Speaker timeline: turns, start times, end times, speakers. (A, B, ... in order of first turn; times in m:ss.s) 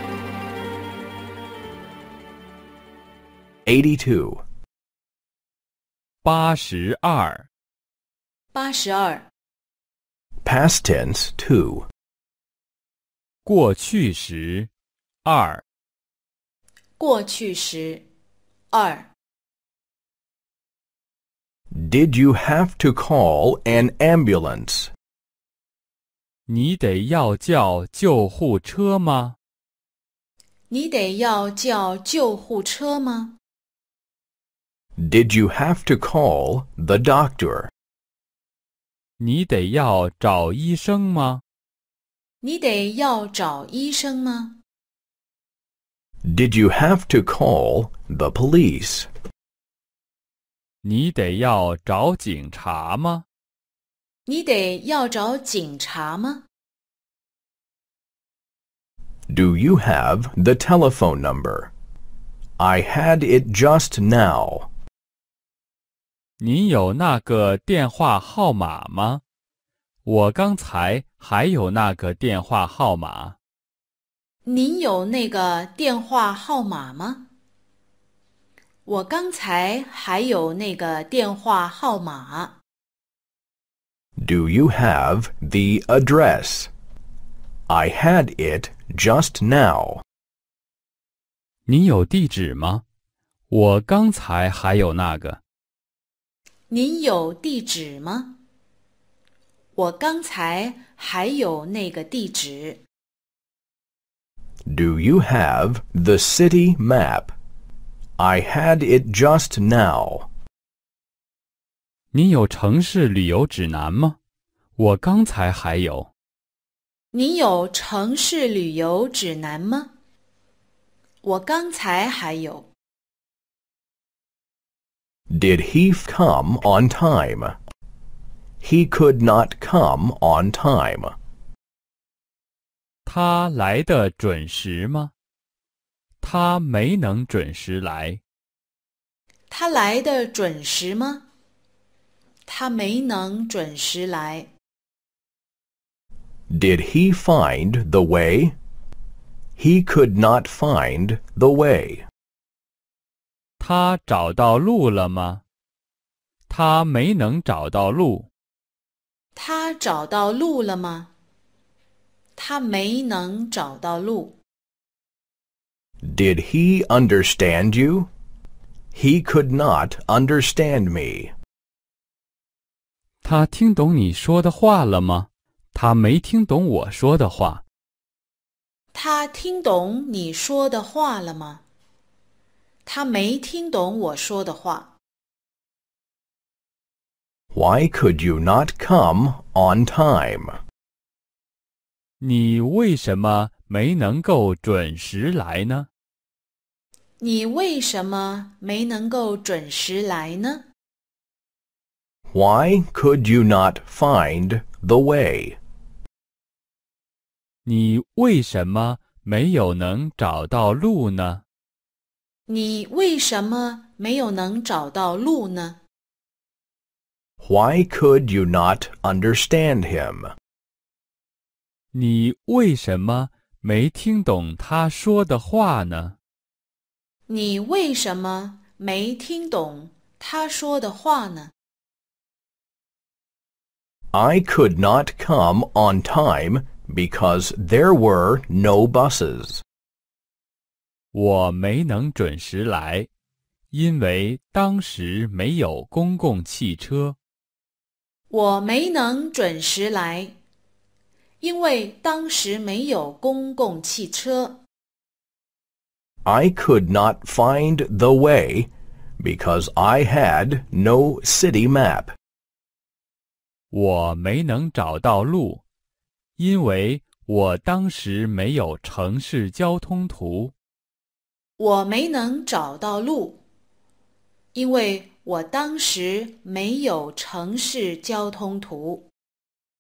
0:03.7-0:04.4 A
0:06.2-0:07.5 B
0:08.5-0:09.3 C
0:10.4-0:11.9 A
0:13.5-0:14.7 B
0:15.2-0:15.6 B
0:17.0-0:18.0 C
0:18.7-0:19.1 C
0:21.7-0:24.9 A
0:26.5-0:29.4 B
0:30.7-0:33.4 C
0:35.0-0:37.7 A
0:39.2-0:41.4 B
0:42.4-0:44.6 C
0:46.2-0:49.1 A
0:50.8-0:53.2 B
0:54.3-0:56.4 C
0:59.3-1:01.7 A
1:02.6-1:04.7 A
1:06.4-1:09.2 B
1:10.0-1:13.4 B
1:14.4-1:17.3 C
1:18.8-1:22.6 C
1:24.2-1:26.7 A
1:27.7-1:30.0 A
1:31.7-1:32.8 B
1:33.5-1:35.4 B
1:36.7-1:38.4 C
1:39.8-1:42.8 C
1:44.7-1:47.3 A
1:48.2-1:50.3 A
1:52.1-1:54.2 B
1:54.8-1:56.1 B
1:57.1-1:59.9 C
2:01.2-2:02.7 C
2:05.3-2:07.6 A
2:08.6-2:11.2 A
2:13.1-2:15.1 B
2:16.2-2:18.2 B
2:19.5-2:21.2 C
2:22.5-2:24.5 C
2:26.5-2:28.6 A
2:29.6-2:32.0 A
2:33.6-2:35.4 B
2:36.5-2:38.3 B
2:39.4-2:41.1 C
2:42.4-2:44.4 C
2:46.0-2:48.1 A
2:48.9-2:51.3 A
2:53.2-2:57.6 B
2:58.9-3:01.6 C
3:02.8-3:04.9 C
3:07.5-3:10.6 A
3:12.2-3:15.9 B
3:17.2-3:20.6 C
3:22.3-3:25.6 A
3:27.6-3:31.4 B
3:32.5-3:35.8 C
3:37.4-3:40.4 A
3:41.9-3:46.2 B
3:47.3-3:51.5 C
3:54.1-3:59.6 A
4:01.1-4:03.1 B
4:03.7-4:07.2 B
4:08.3-4:10.4 C
4:11.4-4:14.6 C
4:16.2-4:22.1 A
4:23.7-4:25.6 B
4:26.4-4:30.5 B
4:31.6-4:33.4 C
4:34.5-4:39.1 C